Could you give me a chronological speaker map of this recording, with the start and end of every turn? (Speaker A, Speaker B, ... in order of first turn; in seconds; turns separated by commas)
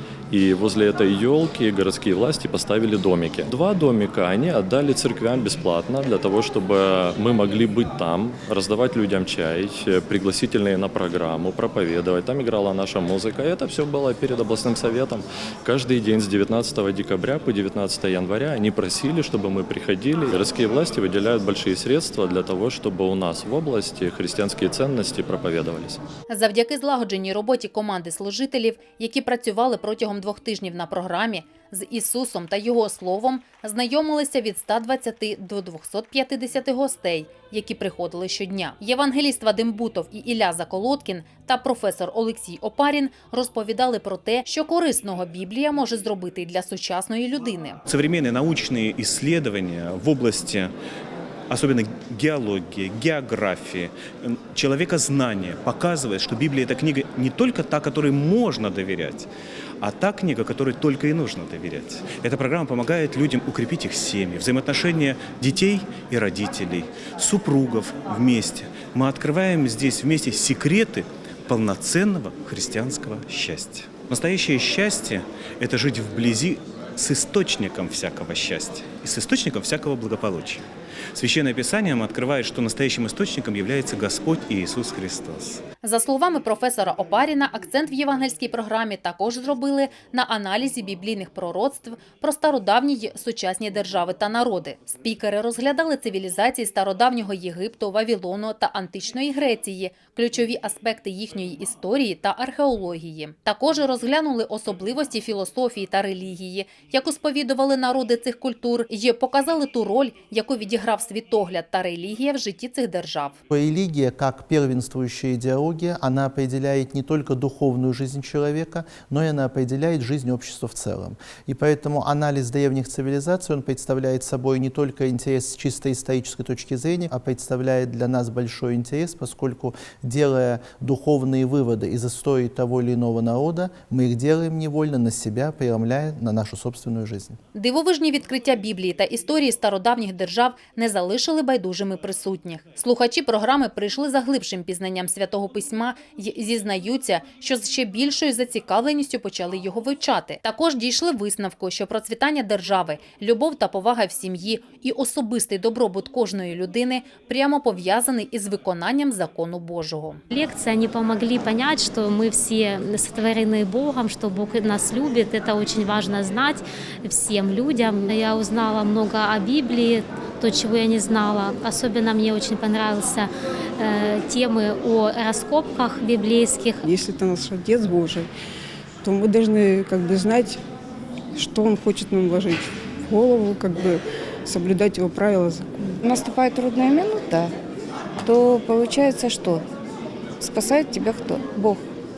Speaker A: 0.3-26.0, Speaker B: 26.3-47.8, Speaker C: 47.9-50.7, Speaker C: 51.5-59.3, Speaker C: 59.8-80.6, Speaker C: 81.2-85.6, Speaker B: 85.8-113.4, Speaker D: 113.5-137.4, Speaker B: 137.5-160.2, Speaker E: 160.3-176.9, Speaker F: 176.8-178.3, Speaker F: 179.0-180.6, Speaker F: 181.3-185.9, Speaker G: 186.0-187.5, Speaker G: 188.2-189.7, Speaker G: 190.4-191.9